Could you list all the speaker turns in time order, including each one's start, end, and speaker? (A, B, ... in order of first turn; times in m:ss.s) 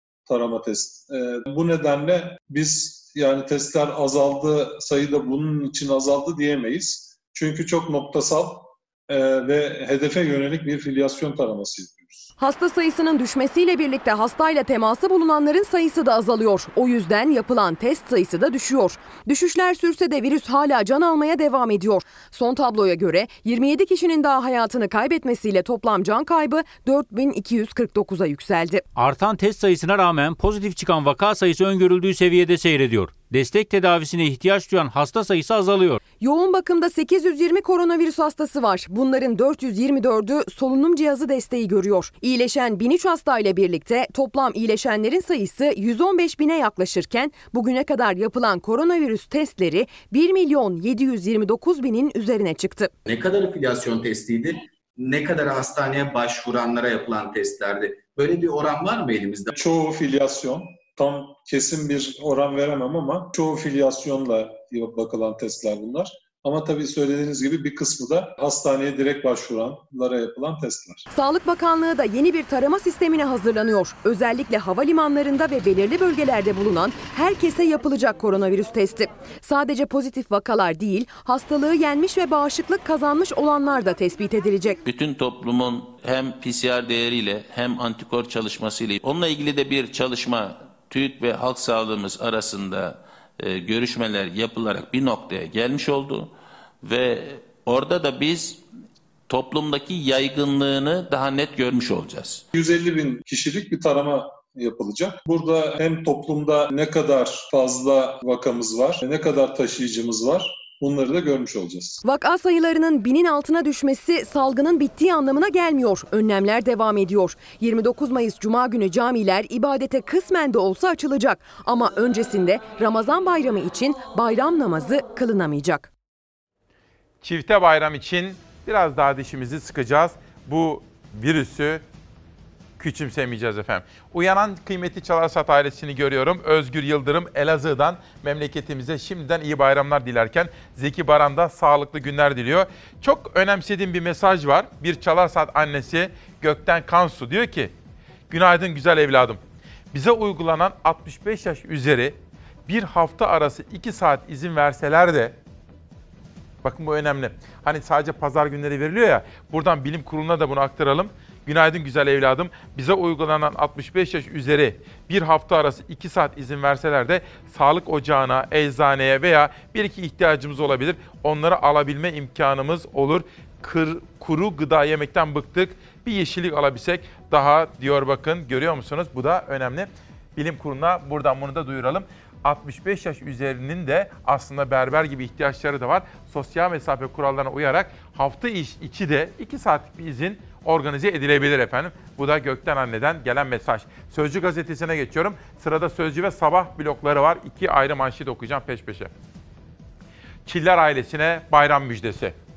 0:00.3-0:12.3 A
0:12.4-0:28.8 B
0:28.9-0:36.0 C
0:36.2-0:52.9 B
0:53.0-0:59.5 D
0:59.5-1:11.0 A
1:11.1-1:24.8 B
1:24.8-1:38.6 E
1:39.3-1:42.4 E
1:42.5-1:52.0 A
1:52.0-2:05.9 B
2:07.2-2:11.8 F
2:12.8-2:27.7 F
2:28.3-2:29.4 F
2:29.9-2:35.4 F
2:36.6-3:19.1 F
3:20.4-3:22.4 F